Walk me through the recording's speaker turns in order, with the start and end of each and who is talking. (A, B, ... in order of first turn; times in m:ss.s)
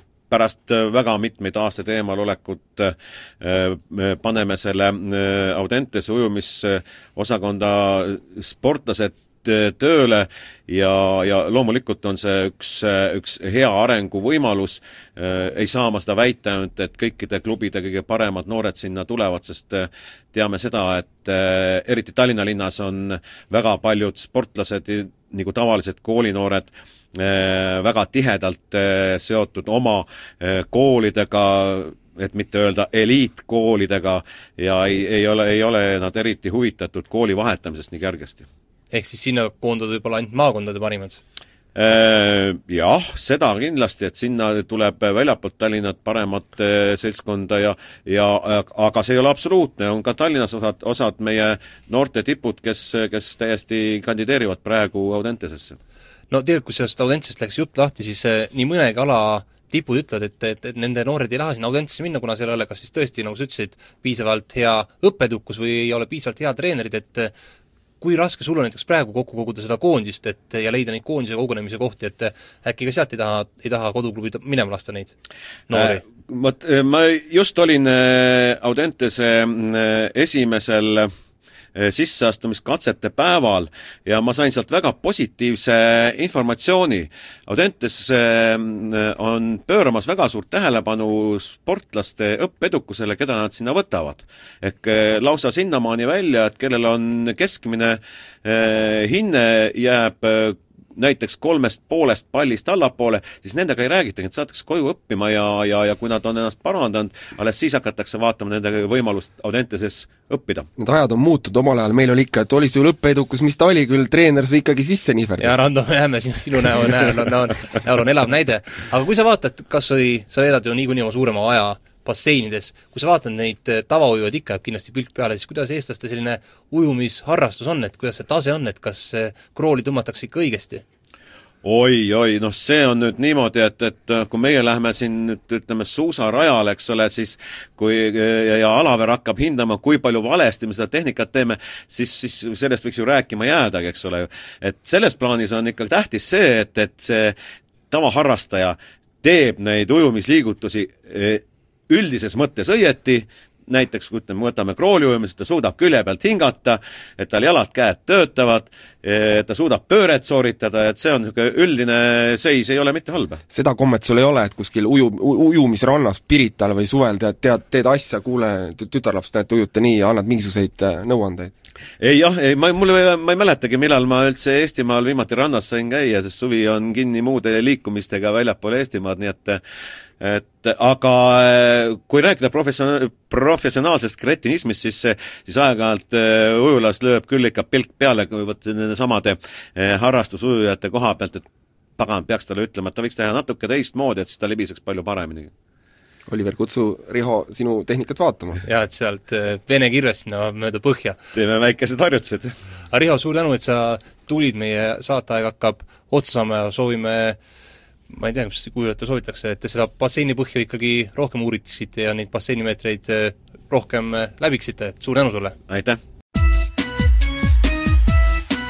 0:00.3-0:38.5 A
0:38.9-0:41.2 B
0:41.8-0:55.8 A
0:56.3-1:07.3 B
1:08.0-1:15.1 B
1:15.7-1:16.0 B
1:15.7-1:21.1 A
1:21.8-1:50.7 A
1:50.8-1:55.6 C
1:55.4-2:10.8 B
2:11.6-2:27.4 A
2:27.9-2:43.4 A
2:43.5-2:51.5 C
2:52.0-2:59.6 A
3:00.2-3:11.4 A
3:12.0-3:15.5 A
3:16.3-3:18.6 C
3:18.7-3:21.2 B
3:21.3-3:22.5 A
3:22.9-3:27.4 B
3:28.1-3:35.6 B
3:35.7-3:36.0 A